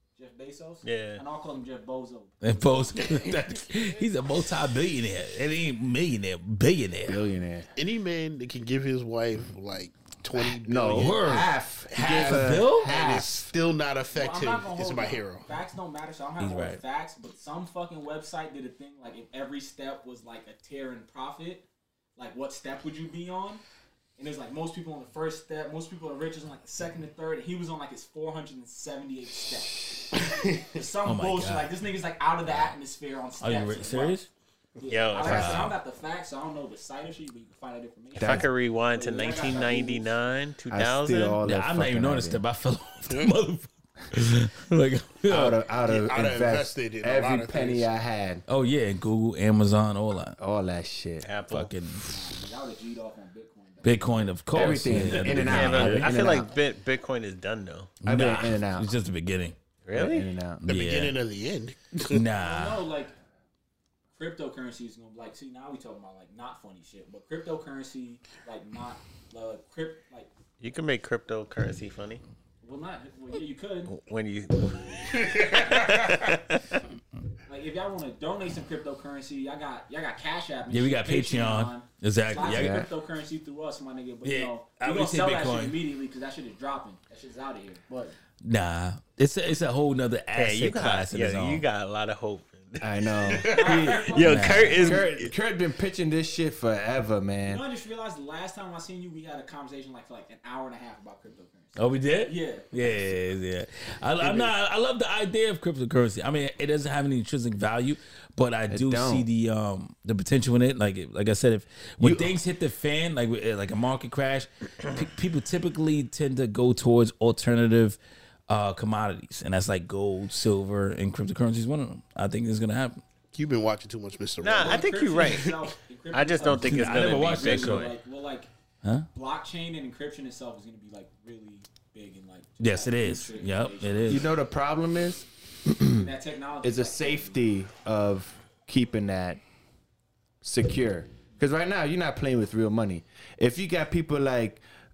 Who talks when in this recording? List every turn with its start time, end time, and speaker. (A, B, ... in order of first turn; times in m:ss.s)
0:00.2-0:03.4 A
0:00.8-0:01.2 B
0:02.4-0:07.2 C
0:07.1-0:07.7 D
0:07.8-0:15.5 E
0:10.4-0:13.5 D
0:10.9-0:13.0 C
0:14.1-0:21.6 A
0:16.4-0:16.8 C
0:22.2-0:23.6 A
0:24.2-0:34.2 A
0:31.0-0:31.7 C
0:33.4-0:34.3 C
0:34.8-0:40.1 A
0:34.9-0:35.7 B
0:35.2-0:35.8 C
0:38.2-0:41.4 B
0:38.2-0:38.5 D
0:40.7-0:42.4 D
0:41.4-0:45.6 C
0:45.3-0:48.4 D
0:45.8-0:47.9 E
0:48.5-0:50.4 C
0:50.4-0:51.3 D
0:51.2-0:51.7 B
0:51.5-0:52.1 C
0:52.1-0:54.4 A
0:53.8-0:56.1 C
0:54.5-0:56.5 D
0:55.2-0:57.9 B
0:58.0-0:59.6 C
0:58.1-0:58.9 D
0:59.8-1:00.3 B
0:59.9-1:00.6 D
1:00.6-1:01.2 C
1:00.6-1:02.2 E
1:02.1-1:02.8 C
1:02.4-1:03.1 A
1:04.1-1:10.3 A
1:10.6-1:12.2 B
1:12.6-1:13.9 A
1:13.9-1:16.8 B
1:15.2-1:16.0 E
1:17.5-1:28.2 A
1:20.7-1:22.9 C
1:22.4-1:22.9 D
1:24.2-1:25.8 C
1:28.4-1:31.6 C
1:30.3-1:35.3 B
1:32.8-1:34.1 D
1:33.5-1:35.1 A
1:34.2-1:35.0 C
1:34.7-1:37.6 D
1:37.5-1:43.2 A
1:41.8-2:03.0 C
1:48.7-1:49.3 D
1:52.0-1:52.3 D
2:03.3-2:05.6 E
2:04.4-2:05.6 B
2:04.6-2:08.5 A
2:06.1-2:07.9 B
2:06.5-2:07.9 C
2:09.1-2:14.3 A
2:12.6-2:14.2 C
2:14.1-2:16.1 D
2:16.0-2:17.4 A
2:16.6-2:19.4 D
2:20.4-2:24.6 D